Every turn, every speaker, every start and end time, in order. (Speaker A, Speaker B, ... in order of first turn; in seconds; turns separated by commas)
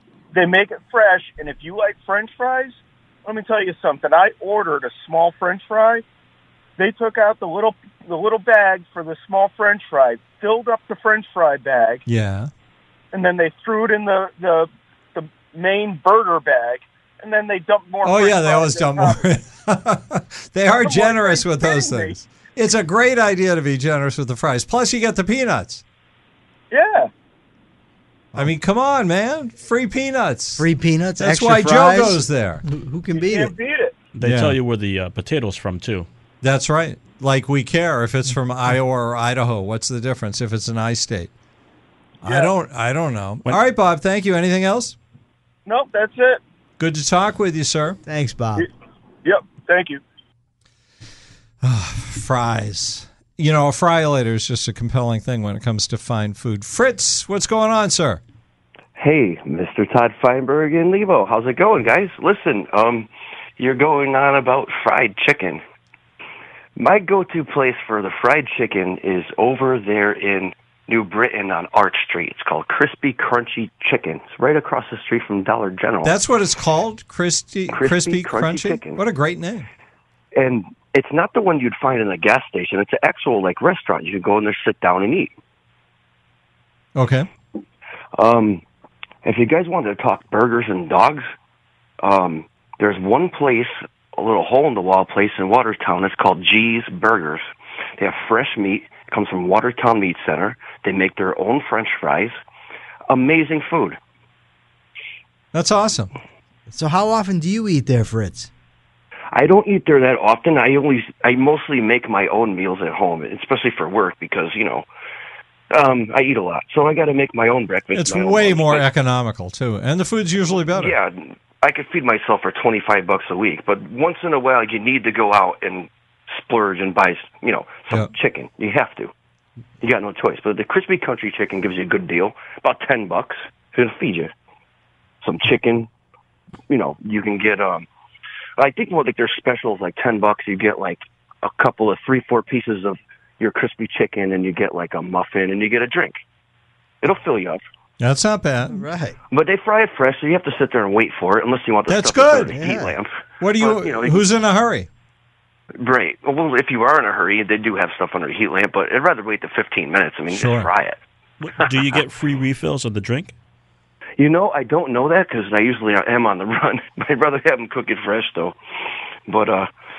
Speaker A: 0.3-6.0, Speaker A: 6.8-12.0, Speaker B: 12.1-12.5, Speaker A: 13.1-19.2, Speaker B: 18.0-25.8, Speaker A: 20.7-22.2, Speaker A: 26.7-27.1, Speaker B: 28.4-30.7, Speaker C: 30.6-33.5, Speaker B: 31.2-32.6, Speaker A: 33.1-33.9, Speaker D: 34.1-36.1, Speaker B: 34.2-34.6, Speaker B: 36.4-41.3, Speaker B: 42.2-45.0, Speaker A: 42.2-42.5, Speaker A: 45.7-46.4, Speaker B: 46.8-48.0, Speaker C: 48.1-48.7, Speaker A: 49.2-50.0, Speaker B: 51.6-58.2, Speaker E: 59.0-65.6, Speaker E: 66.8-76.1, Speaker B: 76.0-79.7, Speaker E: 77.7-79.0, Speaker E: 80.4-85.3, Speaker B: 87.0-87.3, Speaker E: 88.2-88.6, Speaker E: 89.2-91.3, Speaker E: 92.0-97.4, Speaker E: 98.0-102.3, Speaker E: 103.1-104.0, Speaker B: 105.5-106.1, Speaker C: 106.7-108.5, Speaker E: 109.3-114.9, Speaker E: 115.7-118.8, Speaker B: 118.0-120.9, Speaker E: 120.7-129.1, Speaker E: 129.8-134.3, Speaker E: 135.2-135.9, Speaker E: 136.7-137.9, Speaker E: 138.6-146.2, Speaker E: 147.0-147.6, Speaker B: 148.0-148.8, Speaker C: 148.7-149.2, Speaker E: 149.3-154.2, Speaker B: 151.9-152.6, Speaker C: 152.5-153.0, Speaker B: 153.4-154.9, Speaker E: 155.8-161.0, Speaker B: 160.3-160.7, Speaker D: 161.4-163.3, Speaker E: 164.2-168.6, Speaker E: 169.3-169.7